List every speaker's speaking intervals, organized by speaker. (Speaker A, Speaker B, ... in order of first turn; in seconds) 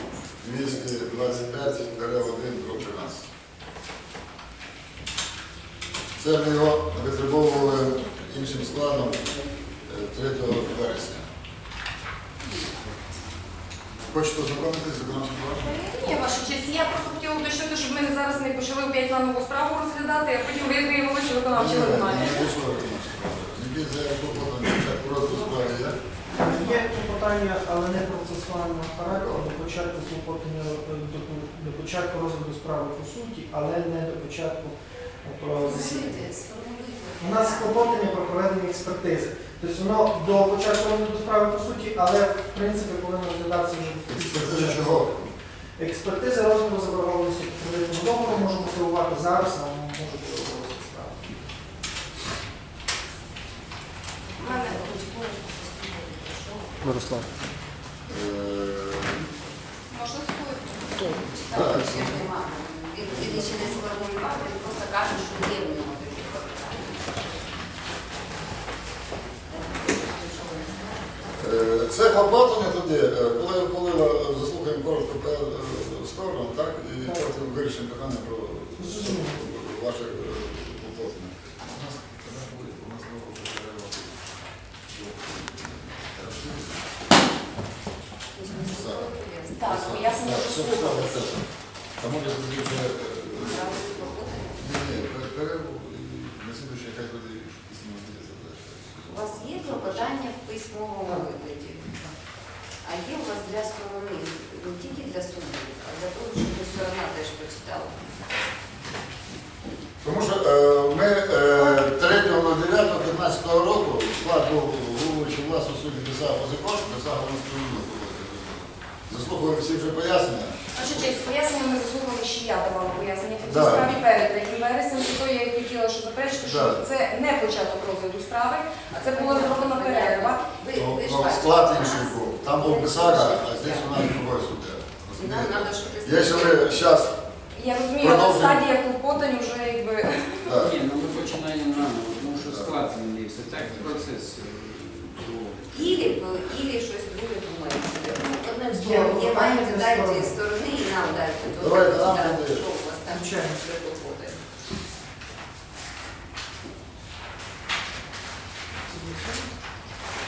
Speaker A: 0.4-3.3, 6.2-11.3, 14.0-15.7, 21.5-26.0, 29.1-29.5, 44.1-45.3, 58.0-59.2, 61.5-62.2, 63.0-63.8, 71.4-84.3, 84.8-86.8, 88.6-89.1, 89.7-91.5, 92.0-100.2, 110.0-121.0, 123.4-124.0, 126.4-126.8, 130.7-137.2, 138.0-138.7, 140.4-140.7, 142.4-142.8, 143.5-144.1, 151.5-152.7
Speaker B: 15.6-22.5, 54.4-55.0, 59.9-61.0, 89.5-91.3, 120.7-130.4, 137.5-140.5
Speaker C: 26.3-27.0, 35.5-38.1, 54.4-57.0, 61.0-67.5, 69.5-71.4, 88.3-89.8, 93.3-94.6, 99.0-102.0, 102.8-108.0, 128.9-134.1, 135.1-136.8, 145.7-154.4
Speaker D: 26.3-36.1, 37.2-45.2, 45.8-51.4, 77.0-77.3, 78.7-79.4, 101.0-101.3, 148.6-150.3, 153.0-153.6, 158.8-159.6
Speaker E: 140.5-145.6